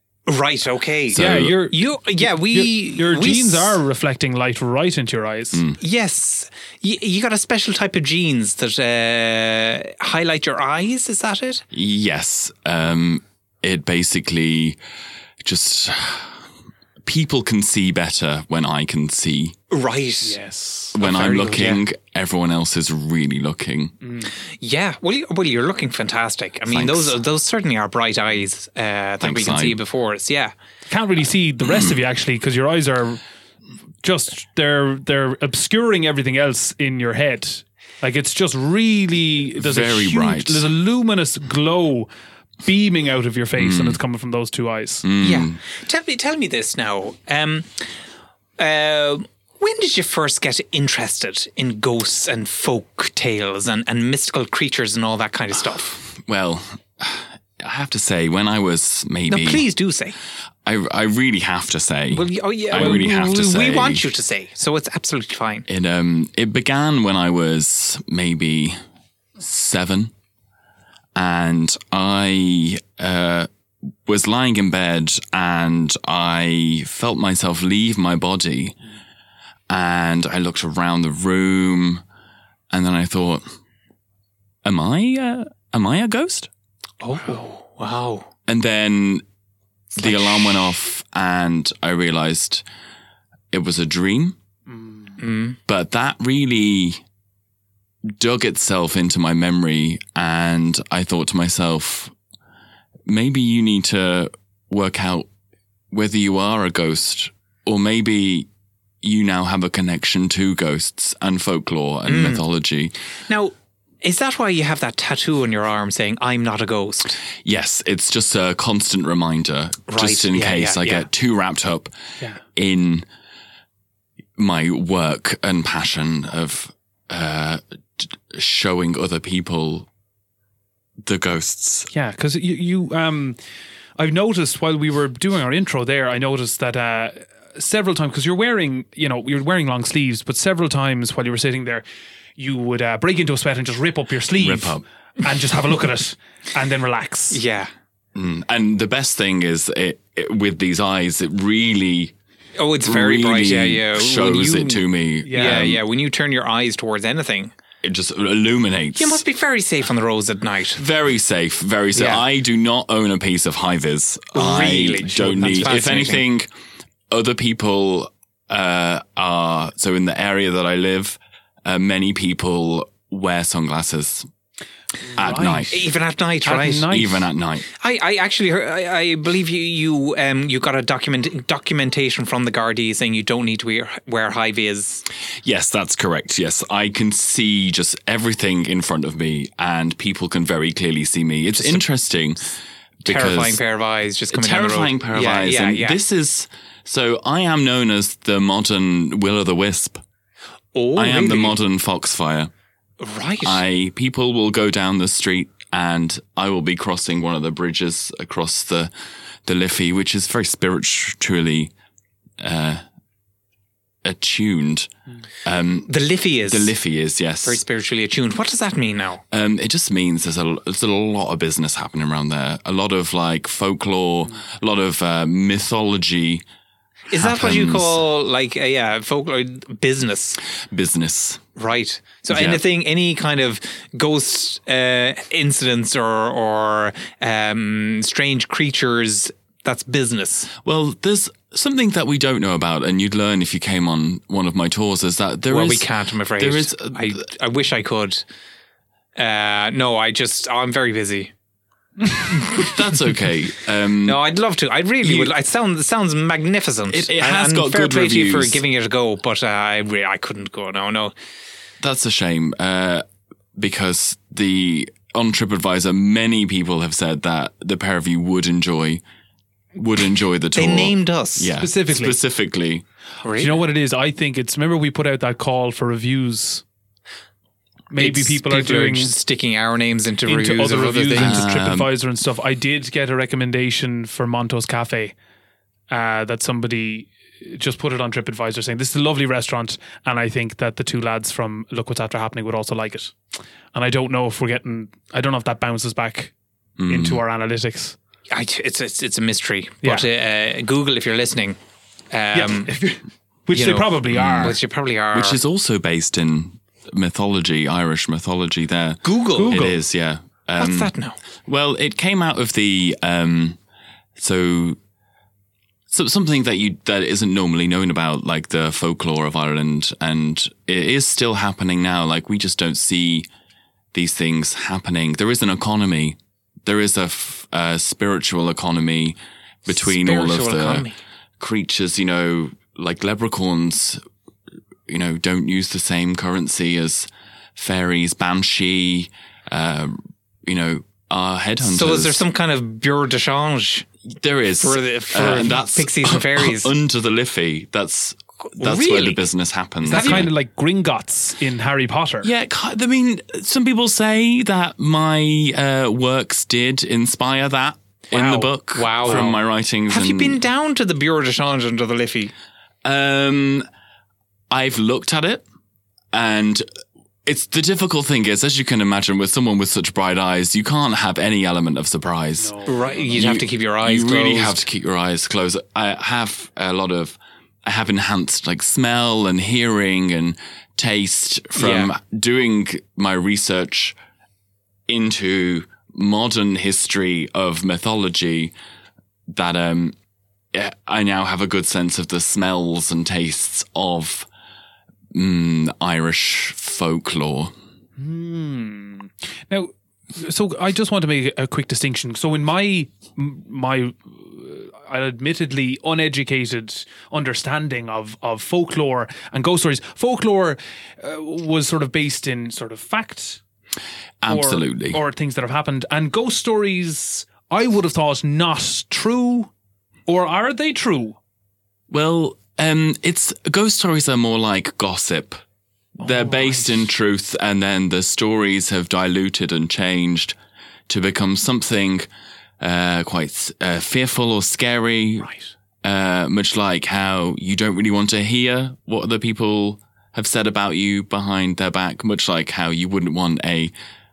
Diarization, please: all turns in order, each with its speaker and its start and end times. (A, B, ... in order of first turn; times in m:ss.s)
0:00.3-0:03.8 A
0:01.1-0:01.5 B
0:01.1-0:05.6 C
0:05.5-0:05.8 B
0:05.8-0:11.6 A
0:11.7-0:14.8 B
0:15.4-0:16.5 B
0:17.0-0:19.6 B
0:19.7-0:20.4 A
0:20.2-0:20.9 C
0:20.9-0:23.9 B
0:21.0-0:21.8 A
0:24.0-0:24.3 C
0:24.4-0:30.5 A
0:26.7-0:27.2 B
0:29.2-0:29.8 B
0:30.9-0:33.2 C
0:31.7-0:32.0 B
0:34.0-0:42.1 C
0:39.6-0:40.6 B
0:42.6-0:45.0 C
0:43.6-0:44.0 B
0:45.0-0:45.6 B
0:45.2-0:47.8 A
0:48.6-0:56.0 A
0:56.2-0:59.6 B
0:59.3-1:00.2 A
1:00.6-1:04.0 B
1:02.1-1:05.6 A
1:02.7-1:03.1 C
1:05.7-1:08.8 B
1:09.4-1:10.1 B
1:11.2-1:13.5 B
1:14.0-1:18.8 B
1:19.7-1:22.0 B
1:22.7-1:23.4 B
1:24.6-1:26.5 B
1:27.0-1:28.3 A
1:28.5-1:29.2 B
1:29.9-1:30.7 A
1:30.0-1:32.6 B
1:33.5-1:34.4 B
1:34.7-1:35.1 C
1:35.2-1:35.6 A
1:35.6-1:37.0 B
1:38.0-1:42.1 B
1:43.0-1:45.3 B
1:45.9-1:48.5 B
1:49.0-1:52.9 B
1:52.0-1:52.4 A
1:53.3-1:57.2 A
1:57.4-2:01.9 B
1:59.9-2:01.1 A
2:02.5-2:03.0 B
2:04.4-2:09.9 B
2:11.0-2:11.9 B
2:11.9-2:13.4 C
2:14.0-2:21.8 C
2:22.4-2:27.4 C
2:24.4-2:24.8 B
2:27.3-2:27.7 A
2:28.1-2:32.1 B
2:32.6-2:37.5 A
2:32.8-2:35.8 B
2:35.2-2:35.6 C
2:37.8-2:39.2 B
2:39.0-2:40.8 A
2:40.8-2:46.5 B
2:41.9-2:42.2 A
2:44.3-2:46.2 A
2:47.1-2:54.3 B
2:55.1-2:55.8 C
2:55.1-2:55.8 B
2:55.7-2:57.0 A
2:56.4-2:57.2 C
2:56.8-2:57.7 B
2:57.7-3:05.0 A
3:05.4-3:13.6 B
3:11.5-3:11.8 A
3:13.0-3:16.0 A
3:14.3-3:20.0 B
3:20.7-3:21.6 A
3:21.0-3:22.5 B
3:23.0-3:23.6 A
3:23.4-3:28.9 B
3:29.4-3:31.7 B
3:32.4-3:32.8 B
3:34.0-3:34.9 B
3:35.4-3:35.9 B
3:35.9-3:36.7 A
3:36.4-3:37.6 B
3:37.4-3:39.2 A
3:39.3-3:46.4 B
3:47.1-3:50.4 A
3:47.1-3:48.0 B
3:50.7-3:51.4 B
3:51.6-4:00.5 A
3:52.3-3:52.6 B
4:00.6-4:07.2 B
4:05.5-4:08.2 A
4:09.2-4:11.3 A
4:12.4-4:14.2 B
4:14.0-4:21.1 A
4:15.0-4:15.3 B
4:16.9-4:18.6 B
4:21.8-4:23.0 B
4:23.6-4:29.0 B
4:29.8-4:32.8 B
4:30.5-4:31.5 A
4:31.6-4:32.2 C
4:33.2-4:33.6 A
4:33.3-4:36.6 C
4:37.9-4:39.1 C
4:38.0-4:41.4 A
4:40.3-4:45.1 C
4:41.1-4:41.9 B
4:45.9-4:53.1 C
4:53.7-4:56.3 C
4:56.8-4:57.2 B
4:56.9-4:58.0 C
4:58.3-5:01.6 A
5:02.1-5:02.7 A
5:02.3-5:04.6 C
5:03.5-5:05.4 A
5:04.1-5:04.6 B
5:05.1-5:10.9 B
5:09.0-5:09.6 A
5:09.4-5:09.8 C
5:10.6-5:11.2 A
5:11.4-5:13.6 B
5:14.2-5:14.8 B
5:15.9-5:23.3 B
5:23.9-5:30.8 B
5:29.7-5:31.0 A
5:31.4-5:34.0 B
5:34.9-5:42.2 B
5:41.6-5:43.9 A
5:44.1-5:50.3 B
5:44.6-5:46.7 A
5:48.6-5:49.2 A
5:49.8-5:52.3 C
5:49.9-5:50.3 A
5:52.2-6:00.4 B
5:58.1-5:59.4 A
5:59.0-5:59.3 C
5:59.9-6:02.3 A
6:02.8-6:03.6 B
6:04.5-6:05.4 B
6:06.1-6:06.6 B
6:07.2-6:24.0 B
6:12.4-6:13.0 C
6:12.6-6:14.6 A
6:21.6-6:21.9 A
6:24.9-6:28.5 B
6:29.3-6:29.9 B
6:30.5-6:34.3 B
6:35.1-6:37.5 B
6:38.0-6:53.4 C
6:54.2-6:55.0 B
6:54.2-6:59.5 C
7:00.1-7:01.2 C
7:01.9-7:05.4 B
7:06.0-7:10.4 B
7:06.0-7:06.7 C
7:10.9-7:12.1 B
7:12.6-7:15.3 B
7:15.8-7:23.7 B